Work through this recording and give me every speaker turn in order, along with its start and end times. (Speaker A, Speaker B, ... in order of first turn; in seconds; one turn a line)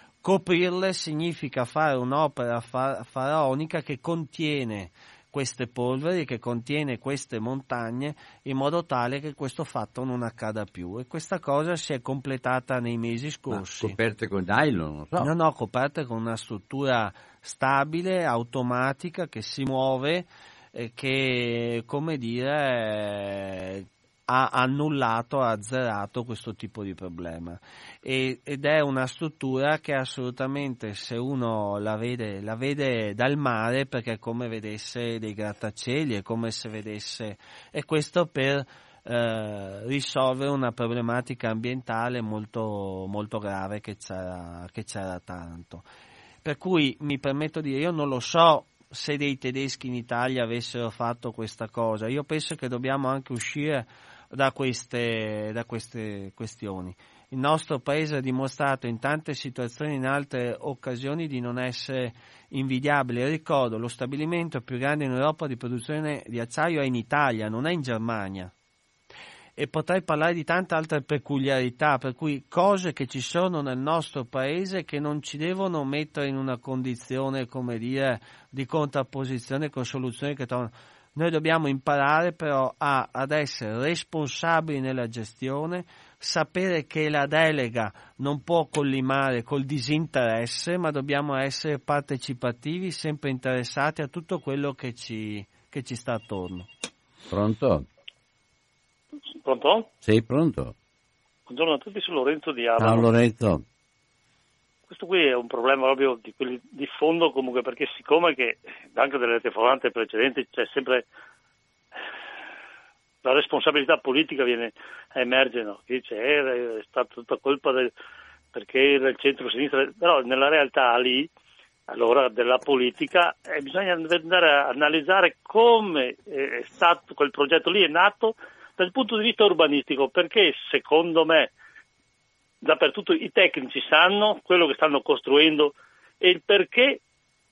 Speaker A: 0.2-14.0
Speaker B: 13.5-15.3
Speaker A: 15.2-45.8
Speaker A: 46.4-68.5
Speaker A: 69.5-96.7
Speaker B: 97.3-97.9
Speaker C: 99.4-99.9
Speaker B: 100.0-100.7
Speaker C: 101.5-103.1
Speaker B: 102.8-103.6
Speaker C: 104.9-111.0
Speaker C: 113.2-117.9
Speaker C: 118.5-121.3
Speaker C: 121.9-131.5
Speaker C: 132.6-137.0